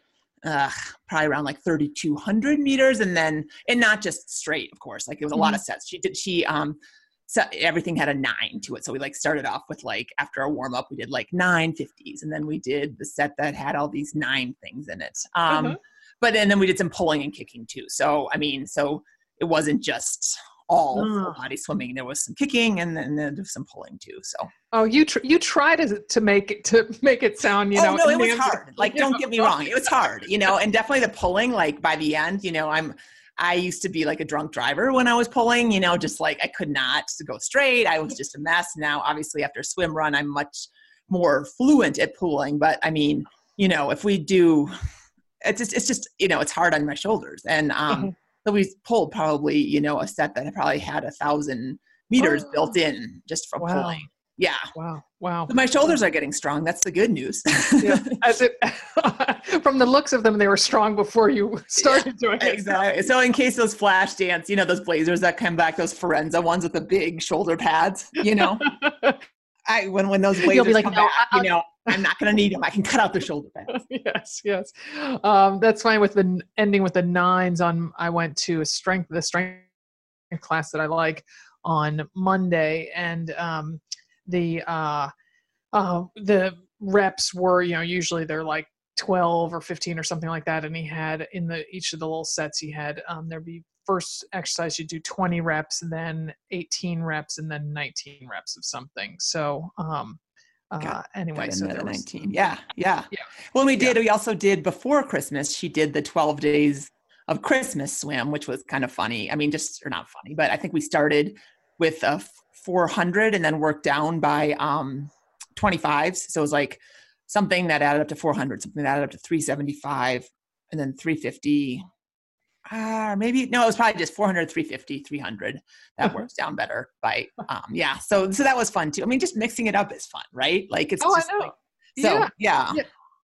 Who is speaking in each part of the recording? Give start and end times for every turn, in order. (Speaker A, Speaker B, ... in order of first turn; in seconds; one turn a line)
Speaker A: 0.4-24.5
Speaker B: 5.3-5.6
Speaker B: 15.5-15.8
Speaker B: 20.9-21.4
Speaker B: 24.7-29.9
Speaker A: 27.7-44.7
Speaker A: 45.4-54.7
Speaker B: 52.2-52.5
Speaker B: 53.6-54.1
Speaker B: 54.7-55.9
Speaker A: 55.5-58.1
Speaker B: 57.8-62.9
Speaker A: 61.8-68.7
Speaker B: 68.4-69.2
Speaker A: 69.7-73.8
Speaker B: 70.4-71.5
Speaker B: 73.7-79.7
Speaker B: 80.3-85.1
Speaker B: 85.7-100.2
Speaker B: 100.7-102.4
Speaker A: 100.8-121.9
Speaker B: 103.1-104.0
Speaker A: 122.7-132.8
Speaker B: 131.0-132.9